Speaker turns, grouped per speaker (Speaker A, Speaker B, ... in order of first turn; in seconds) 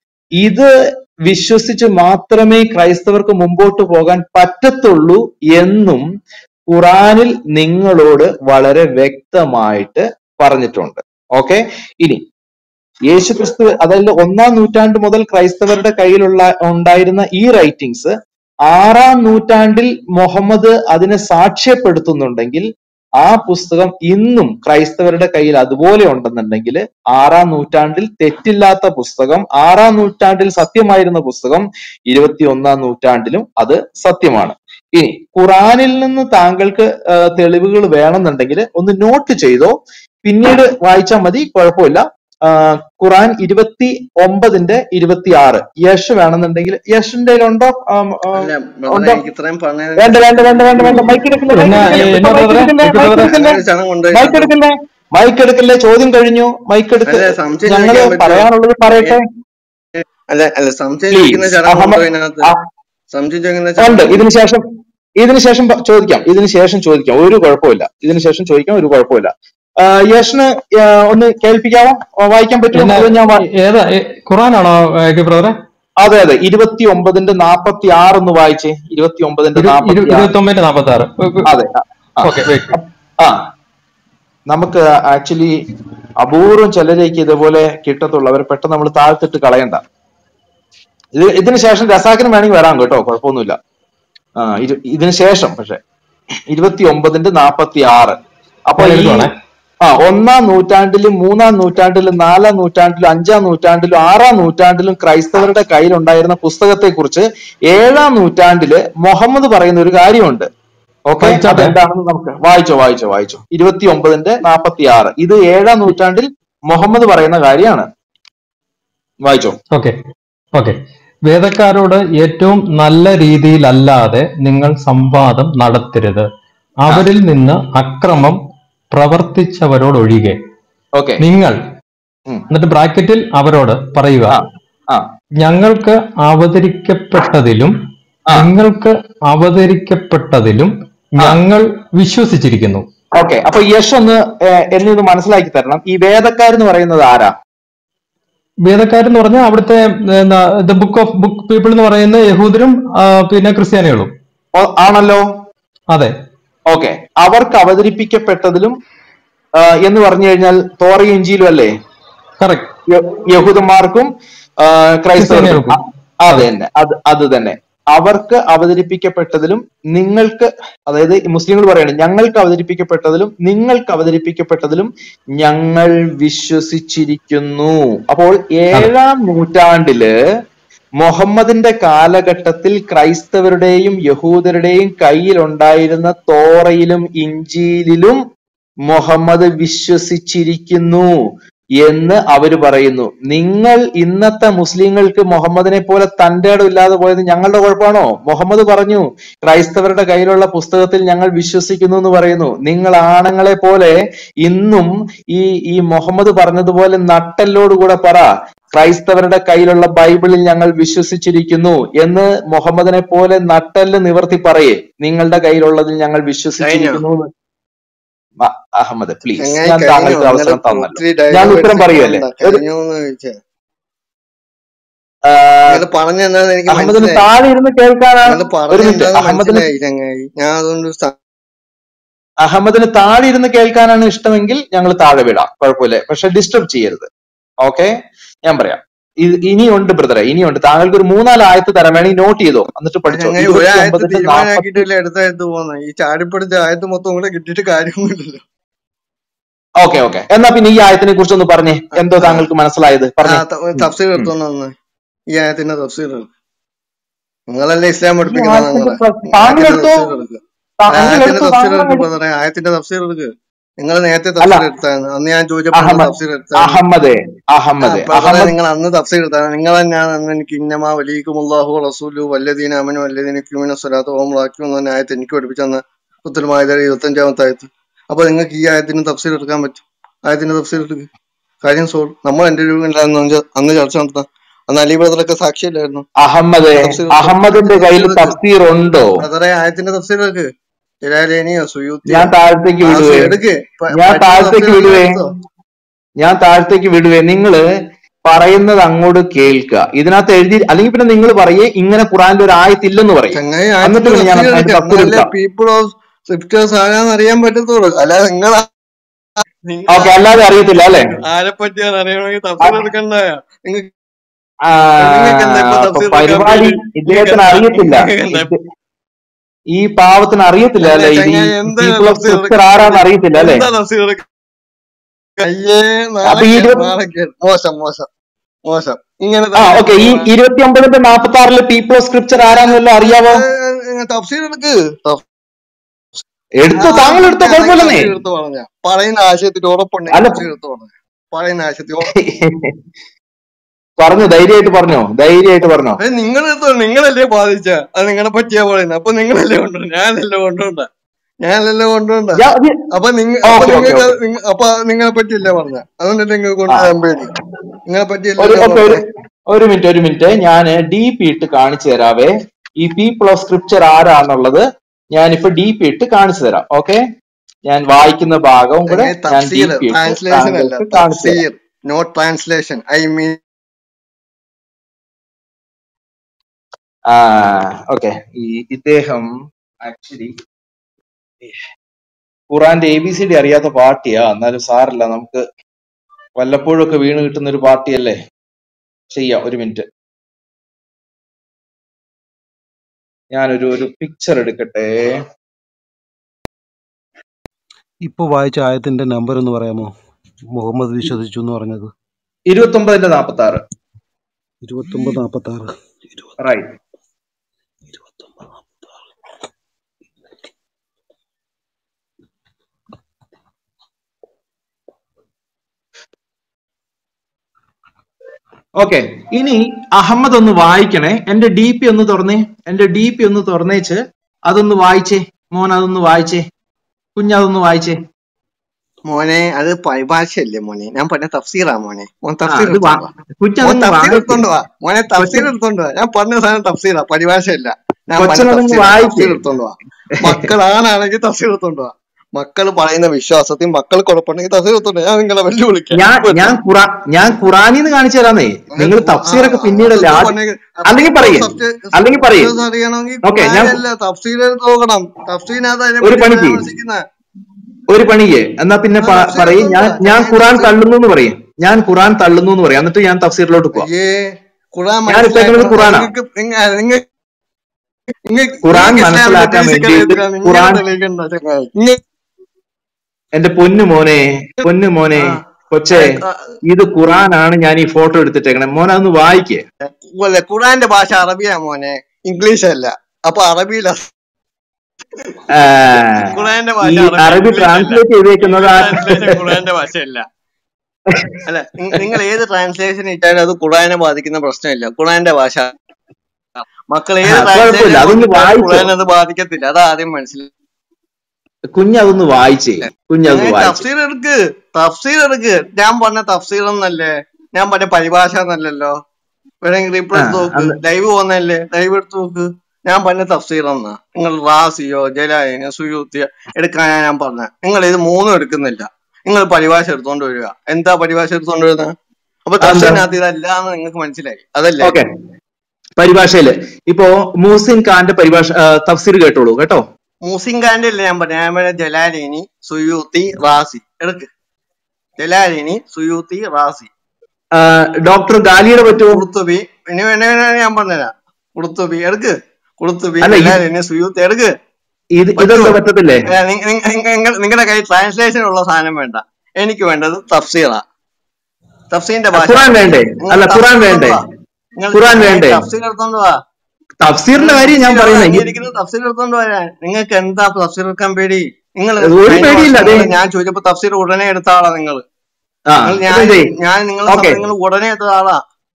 Speaker A: 0.4-0.7, 1.3-6.0, 6.7-12.2, 13.1-18.1, 18.7-22.7, 23.2-49.2, 50.0-53.6, 54.1-59.2, 61.1-62.6, 63.8-64.6, 65.2-73.4, 76.0-80.3, 81.5-83.4, 84.5-85.5, 86.2-89.8, 91.2-93.6, 94.4-95.8, 96.5-98.2, 98.7-99.3, 99.8-110.5, 111.1-117.9, 119.2-119.6, 130.9-131.2, 134.3-135.1, 143.2-147.3, 154.6-155.2, 156.7-158.8, 159.6-161.7, 162.9-180.1, 181.0-188.2, 188.9-191.1, 191.8-217.3, 218.4-222.6, 225.3-225.8, 226.7-229.7, 232.4-237.1, 237.6-237.9, 238.5-244.8, 249.8-253.4, 258.2-260.2, 260.8-262.1, 265.8-268.5, 286.2-289.2, 292.1-293.4, 294.0-295.2, 296.2-297.6, 298.3-305.3, 309.9-311.1, 314.7-318.6, 319.7-323.6, 326.3-326.9, 329.6-333.4, 336.6-338.1, 340.1-340.4, 342.1-342.7, 344.0-346.0, 352.4-352.8, 353.5-354.1, 358.4-367.0, 367.7-371.4, 377.1-380.4, 382.5-385.4, 386.4-388.2, 389.1-389.9, 393.3-395.2, 402.5-403.6, 406.4-406.7, 418.8-426.4, 427.2-428.0, 432.5-434.4, 435.2-435.5, 438.2-439.4, 445.9-450.4, 450.9-452.5, 453.2-453.8, 456.0-456.6, 457.9-463.9, 465.1-466.1, 468.6-470.8, 473.4-479.6, 485.5-489.5, 491.1-491.4, 497.3-498.9, 501.8-503.8, 510.2-510.7, 522.6-523.0, 526.0-529.8, 537.5-539.2, 543.2-543.6, 545.2-546.3, 552.4-554.2, 554.9-555.6, 557.0-558.5, 562.0-563.1, 565.7-566.5, 567.1-567.4
Speaker B: 48.4-52.1, 53.0-54.5, 57.1-58.5, 60.0-62.5, 63.1-64.2, 216.6-217.0, 219.4-223.4, 225.7-227.2, 228.3-231.2, 243.1-248.4, 252.2-252.5, 253.2-254.7, 255.3-256.3, 257.5-260.4, 260.9-266.8, 267.8-281.1, 281.6-286.1, 286.8-288.4, 289.2-290.5, 291.0-292.3, 292.8-295.3, 303.3-308.7, 309.6-310.2, 311.2-313.9, 315.0-318.5, 320.8-324.2, 325.4-328.1, 328.7-330.3, 332.4-335.2, 336.8-342.1, 346.0-350.9, 351.4-357.3, 357.9-359.0, 368.9-373.4, 429.1-433.1, 433.6-446.6, 448.8-457.0, 459.0-460.7, 463.8-467.0, 468.3-472.0, 475.9-476.6, 479.9-484.1, 486.0-490.2, 491.5-495.7, 496.9-500.5, 502.8-508.9, 509.6-521.9, 522.5-525.0, 530.3-534.3, 535.2-536.9, 539.1-544.5, 545.4-550.8, 551.9-554.2, 554.8-556.4, 557.4-565.0, 565.9-568.4
Speaker C: 51.5-53.3, 72.7-75.5, 79.6-81.5, 82.2-82.8, 98.8-99.3, 111.2-111.8, 121.3-126.3, 126.8-128.4, 128.9-130.4, 131.2-131.6, 132.5-134.4, 135.4-137.7, 138.3-142.8, 148.7-154.1, 162.4-162.7, 165.2-165.8
Speaker D: 398.0-399.9, 400.5-401.9, 404.6-406.3, 407.9-408.6